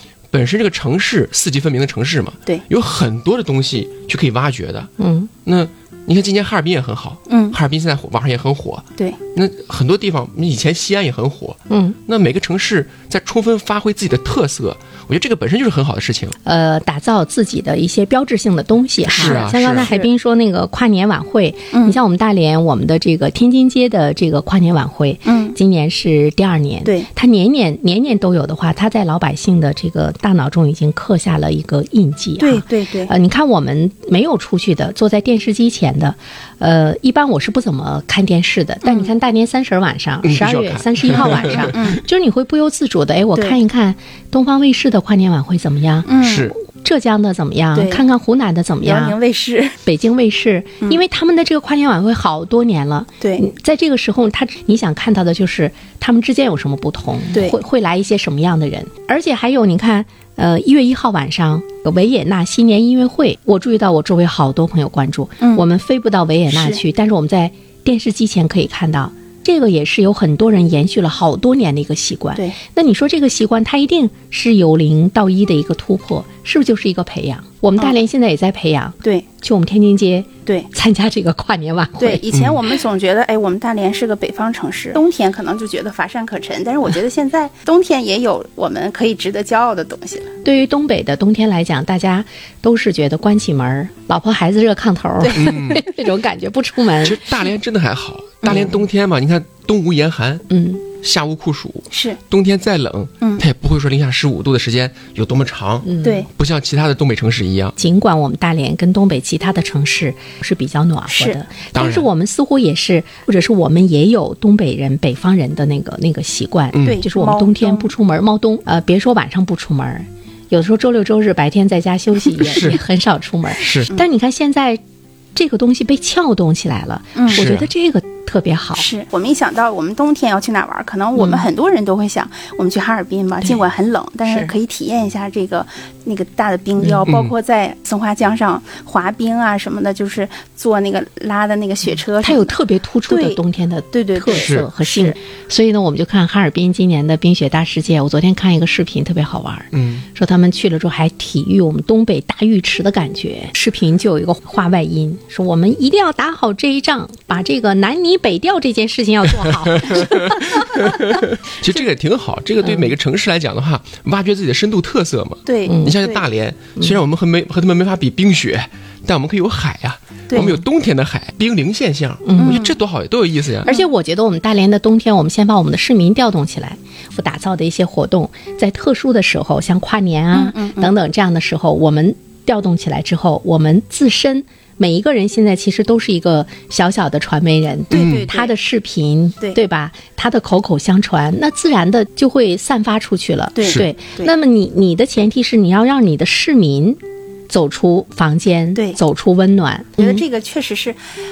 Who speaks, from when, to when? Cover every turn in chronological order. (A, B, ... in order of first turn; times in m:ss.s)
0:00.3-0:04.9 A
0:05.0-0:05.3 B
0:05.4-0:16.4 A
0:07.3-0:07.6 C
0:11.7-0:12.0 B
0:16.4-0:49.2 B
0:19.0-0:19.9 A
0:19.1-0:20.1 C
0:21.7-0:22.0 C
0:25.2-0:25.6 C
0:32.4-0:33.1 C
0:38.8-0:39.1 C
0:40.2-0:41.9 A
0:41.2-0:42.0 C
0:46.1-0:46.5 C
0:46.2-0:46.6 A
0:47.7-0:48.0 C
0:48.8-0:49.8 C
0:49.8-1:22.2 B
0:53.2-0:53.5 C
1:06.5-1:06.8 C
1:22.0-1:30.3 C
1:22.3-1:22.6 A
1:30.4-1:37.2 B
1:35.2-1:35.8 C
1:35.3-1:35.8 A
1:37.0-1:47.8 A
1:40.5-1:40.8 B
1:41.9-1:42.2 C
1:45.8-1:46.2 B
1:46.0-1:46.3 C
1:47.8-2:04.8 B
1:51.1-1:51.4 C
1:51.7-1:52.1 A
1:56.7-1:57.0 A
1:56.8-1:57.9 C
2:02.4-2:02.8 A
2:03.6-2:03.9 A
2:05.4-2:08.9 B
2:07.2-2:07.5 C
2:07.3-2:07.7 A
2:08.8-2:22.6 C
2:11.2-2:11.4 B
2:14.3-2:14.5 B
2:16.8-2:17.0 B
2:17.1-2:17.3 A
2:22.2-2:40.8 B
2:23.1-2:23.4 C
2:23.9-2:25.2 C
2:24.3-2:24.7 A
2:29.7-2:30.0 A
2:39.4-2:53.7 A
2:42.6-2:42.9 B
2:45.5-2:46.2 C
2:45.6-2:46.0 B
2:50.3-2:50.5 C
2:50.4-2:50.6 B
2:52.2-2:52.6 B
2:52.4-2:52.8 C
2:53.6-3:20.2 B
3:00.3-3:00.9 C
3:07.9-3:08.5 C
3:07.9-3:08.3 A
3:13.6-3:14.3 C
3:13.6-3:13.9 A
3:20.0-3:21.0 C